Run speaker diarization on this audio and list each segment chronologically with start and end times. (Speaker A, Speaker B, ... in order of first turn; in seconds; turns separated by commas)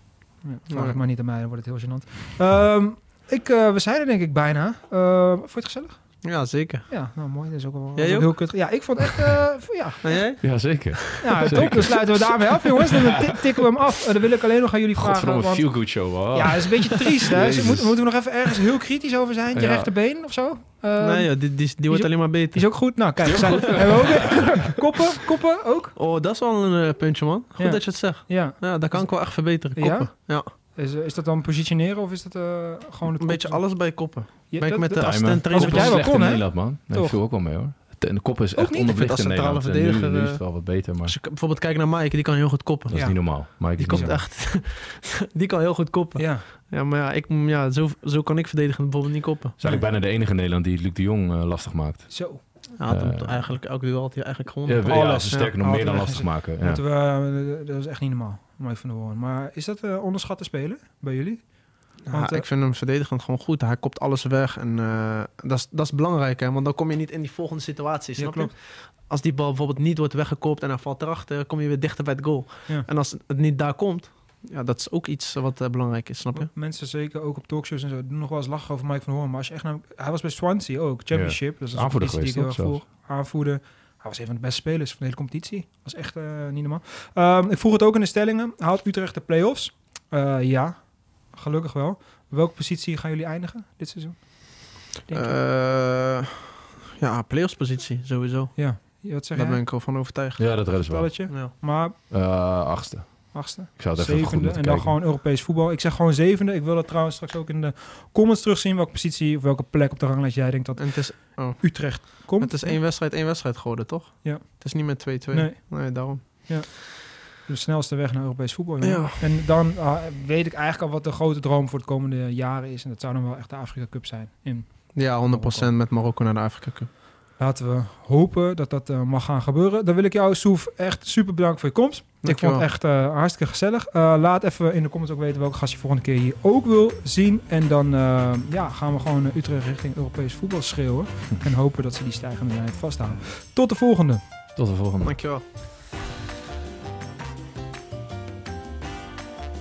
Speaker A: 0.4-25.9, Speaker B: 0.7-1.0, Speaker B: 6.2-7.2, Speaker B: 8.0-8.8, Speaker B: 10.0-11.9, Speaker C: 10.4-13.3, Speaker C: 14.9-18.3, Speaker C: 19.5-19.9, Speaker B: 21.0-23.2, Speaker C: 23.2-24.6, Speaker B: 25.9-30.5, Speaker A: 27.6-37.2, Speaker B: 33.2-36.2, Speaker C: 35.0-41.1, Speaker A: 38.5-38.9, Speaker B: 38.8-49.6, Speaker C: 42.9-44.2, Speaker A: 42.9-44.2, Speaker A: 46.1-46.5, Speaker C: 49.6-53.6, Speaker A: 52.1-52.4, Speaker B: 52.8-55.3, Speaker C: 54.6-56.8, Speaker A: 54.8-62.5, Speaker B: 62.0-76.5, Speaker A: 68.2-68.5, Speaker A: 76.3-95.4, Speaker C: 81.1-82.8, Speaker B: 95.1-100.7, Speaker A: 98.5-99.6, Speaker C: 100.4-101.3, Speaker A: 100.8-101.9, Speaker B: 101.3-101.5, Speaker C: 102.1-105.0, Speaker A: 103.3-112.8, Speaker B: 110.8-116.5, Speaker A: 114.2-125.7, Speaker B: 118.8-119.2, Speaker B: 124.9-126.9, Speaker A: 127.4-144.2, Speaker B: 132.2-132.6, Speaker C: 144.5-145.1, Speaker B: 145.0-145.4